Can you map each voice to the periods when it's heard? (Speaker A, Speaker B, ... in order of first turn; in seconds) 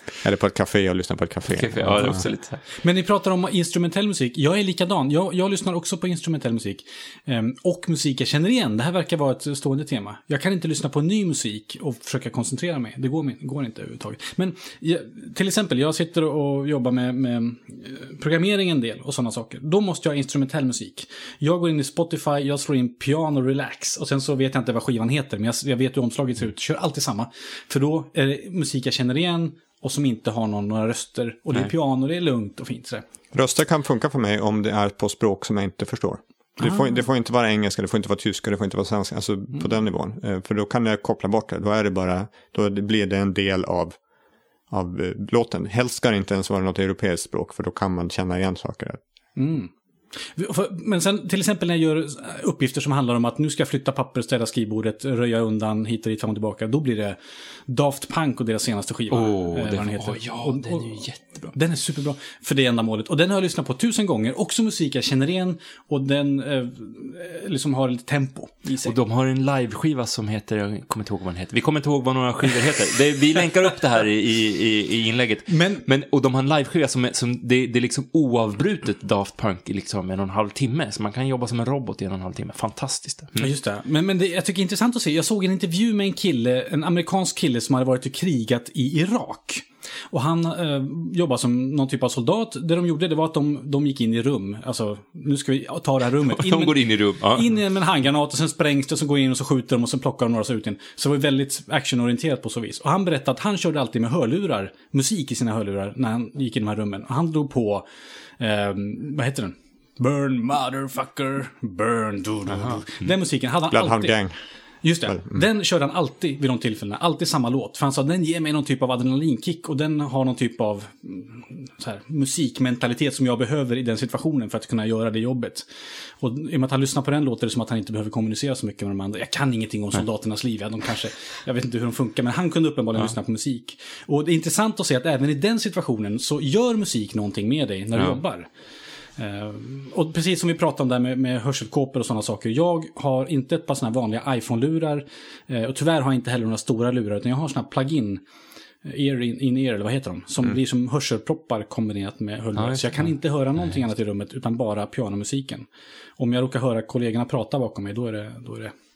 Speaker A: 0.2-2.2, 33.3-44.0, 44.7-49.0, 113.7-114.4, 115.1-115.4
Speaker B: 1.5-2.7, 59.1-61.5, 68.8-83.5, 96.1-97.5, 112.5-113.1, 152.6-153.1
Speaker C: 2.8-33.0, 49.4-49.7, 50.2-57.2, 57.7-69.0, 75.5-75.8, 83.4-107.8, 108.4-114.2, 114.8-125.7, 126.2-138.5, 139.2-148.2, 148.8-155.7, 156.2-158.7